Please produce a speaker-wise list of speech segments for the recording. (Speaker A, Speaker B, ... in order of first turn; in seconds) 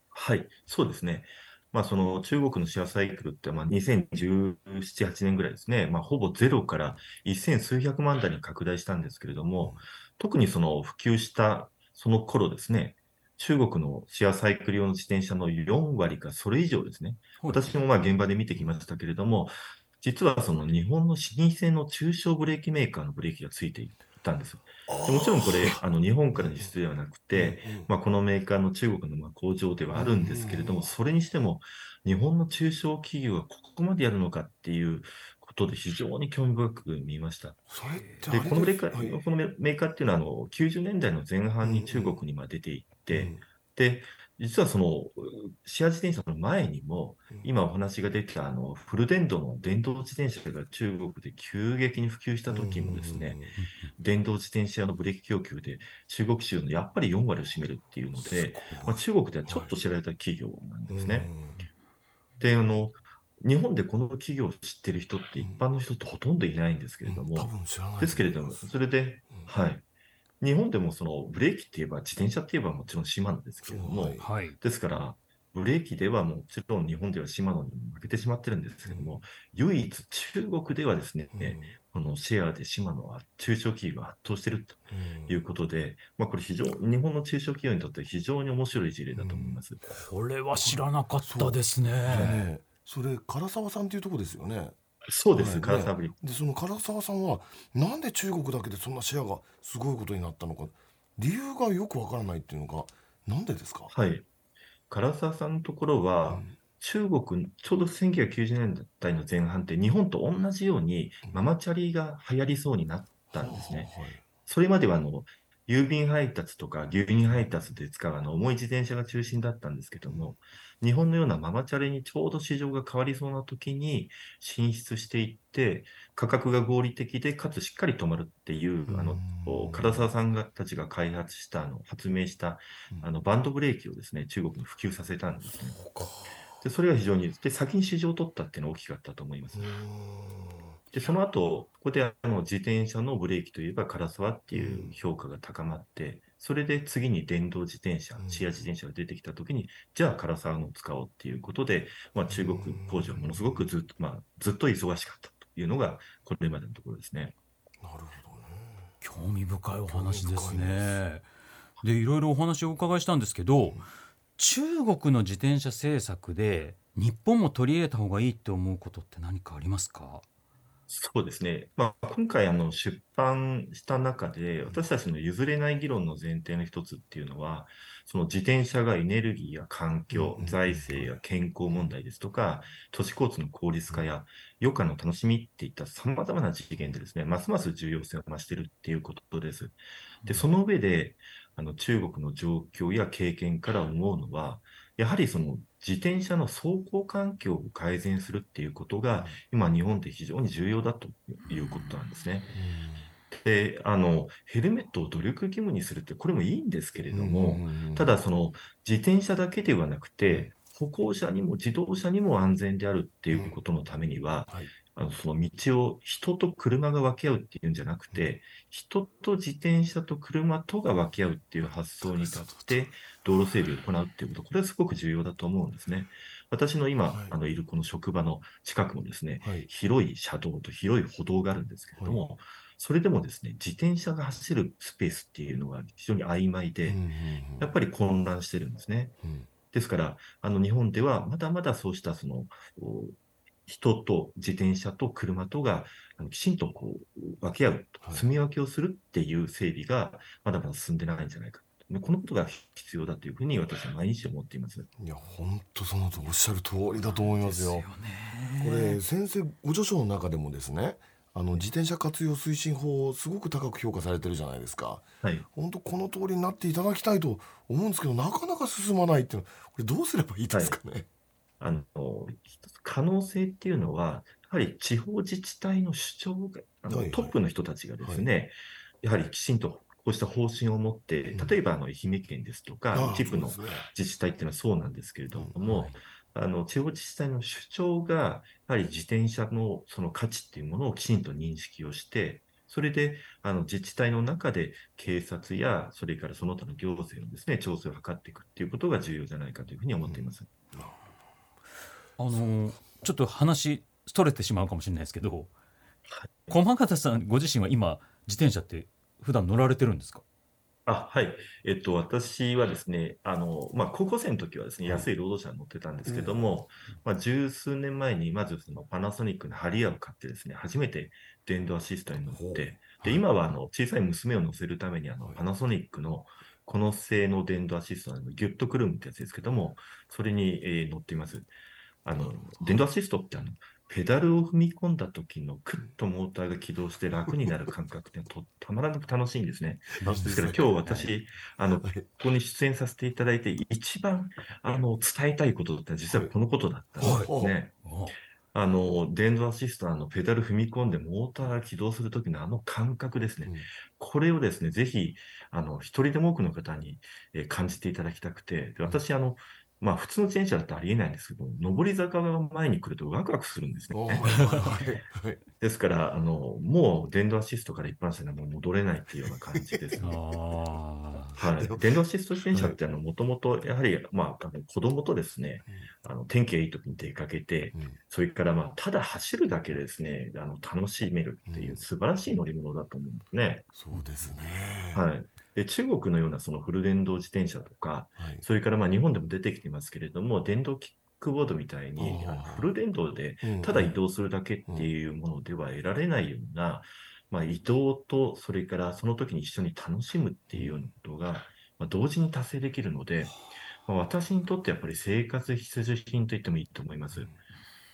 Speaker A: 0.1-37.7, 38.2-53.4, 54.0-61.3, 62.4-69.8, 70.4-89.8, 95.1-96.2, 103.9-104.2, 104.9-113.9, 114.5-136.1, 136.6-139.7, 140.9-157.3, 170.9-202.5, 203.3-237.0, 237.6-239.2, 239.7-254.9, 270.5-270.8, 271.6-300.5, 306.1-306.5, 310.9-331.5, 332.0-347.7, 348.5-364.7, 365.6-370.1, 371.4-383.8, 384.9-407.3
Speaker B: 17.4-17.7, 37.9-38.5, 74.2-74.5, 89.9-92.4, 159.0-161.2, 161.8-163.8, 164.4-170.2, 257.0-259.0, 285.6-285.9, 302.2-305.5, 306.5-310.2, 347.8-348.1, 370.0-371.4
Speaker C: 24.9-25.8, 26.3-26.7, 27.3-27.9, 29.9-30.9, 37.7-39.2, 41.6-42.2, 43.1-43.4, 52.5-53.5, 58.1-59.7, 60.9-61.6, 67.0-68.7, 73.6-74.3, 78.9-79.2, 81.3-81.7, 84.9-85.4, 89.1-89.6, 90.5-94.7, 95.3-103.9, 106.2-106.5, 113.3-114.2, 120.1-120.3, 128.9-130.1, 135.5-136.3, 139.5-140.8, 144.5-144.9, 148.2-148.5, 152.3-153.7, 157.8-158.9, 159.9-160.9, 180.1-181.2, 202.5-203.1, 207.1-208.2, 213.3-213.6, 222.0-222.9, 229.4-229.7, 232.0-232.3, 236.8-237.7, 255.0-257.9, 258.6-271.1, 276.9-277.3, 282.9-283.9, 300.1-300.9, 314.8-315.1, 316.0-316.6, 322.2-322.8, 332.1-332.8, 340.0-340.7, 347.0-347.5, 363.9-365.4, 369.5-370.1, 371.3-372.8, 381.5-381.8, 383.7-385.0, 388.2-388.4, 392.0-392.7, 393.4-394.0, 400.5-400.8